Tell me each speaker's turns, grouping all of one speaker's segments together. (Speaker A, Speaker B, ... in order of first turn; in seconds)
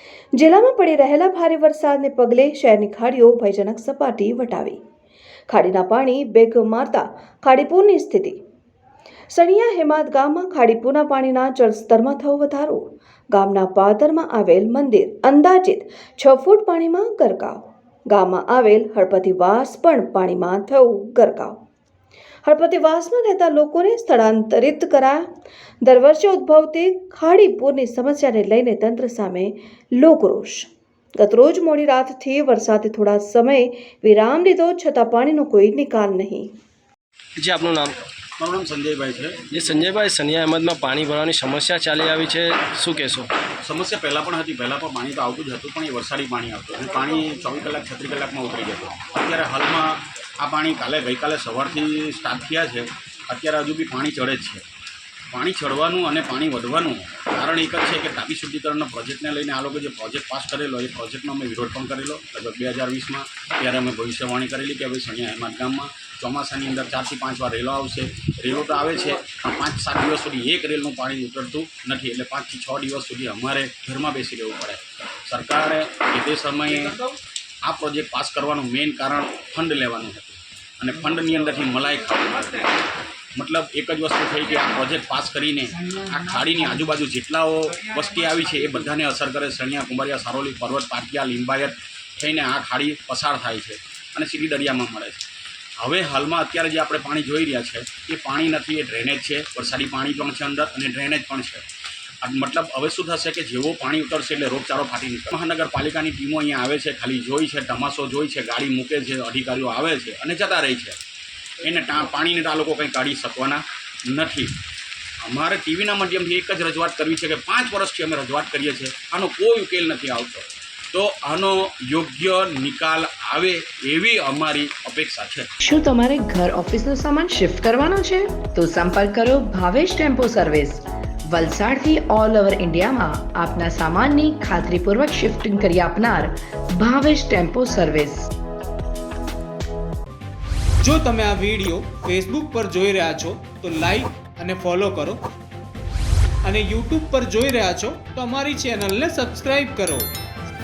Speaker A: 0.3-4.8, 5.5-8.4, 9.3-21.6, 22.4-25.3, 25.8-36.5
Speaker B: 37.4-37.9, 39.5-43.3
Speaker C: 38.4-39.4, 43.6-54.6, 55.3-77.0, 77.6-82.7, 83.3-95.2, 95.8-101.6, 102.2-111.0, 111.6-114.5, 115.2-125.5
Speaker D: 125.6-138.3
Speaker E: 140.8-145.2, 146.4-150.1